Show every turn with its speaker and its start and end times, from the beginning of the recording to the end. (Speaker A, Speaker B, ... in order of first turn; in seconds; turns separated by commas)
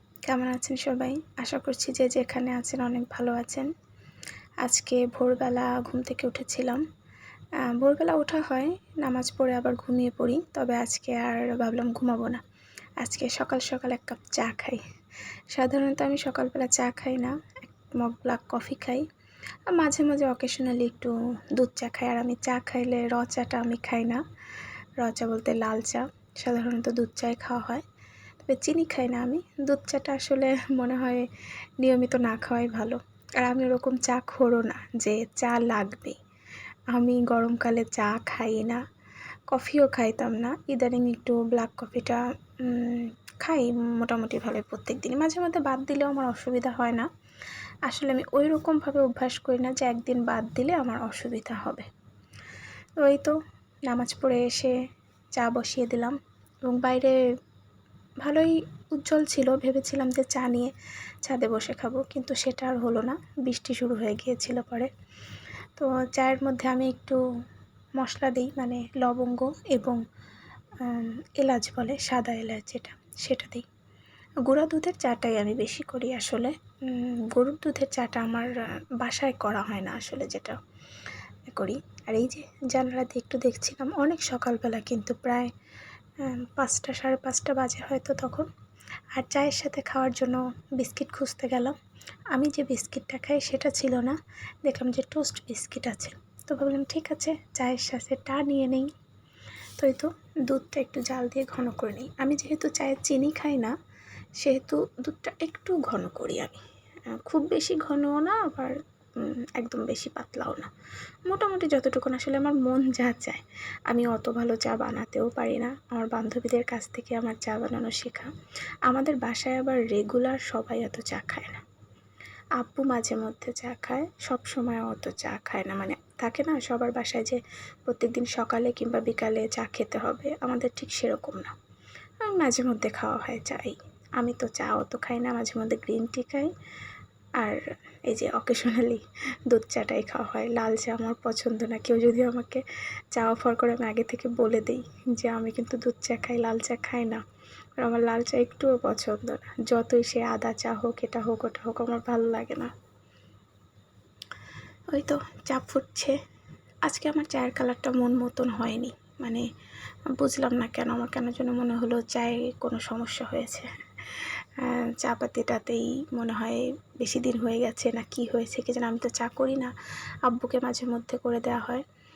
Speaker A: 0.2-3.7, Speaker A: 4.6-6.8, Speaker A: 7.7-12.4, Speaker A: 13.0-14.8, Speaker A: 15.5-19.0, Speaker A: 19.7-24.2, Speaker A: 25.0-27.8, Speaker A: 28.4-31.2, Speaker A: 31.8-36.2, Speaker A: 36.9-38.8, Speaker A: 39.5-47.1, Speaker A: 47.9-51.9, Speaker A: 53.0-53.4, Speaker A: 53.9-54.7, Speaker A: 55.4-57.2, Speaker A: 58.2-64.9, Speaker A: 65.8-67.2, Speaker A: 68.0-70.0, Speaker A: 70.8-73.6, Speaker A: 74.5-80.6, Speaker A: 81.5-85.5, Speaker A: 86.2-88.5, Speaker A: 89.1-91.7, Speaker A: 92.3-98.9, Speaker A: 99.8-103.7, Speaker A: 104.4-110.7, Speaker A: 111.3-118.3, Speaker A: 118.9-121.6, Speaker A: 122.6-131.5, Speaker A: 132.2-136.5, Speaker A: 137.4-147.2, Speaker A: 147.8-152.7, Speaker A: 154.9-156.2, Speaker A: 156.8-159.4, Speaker A: 160.2-169.7, Speaker A: 170.3-171.8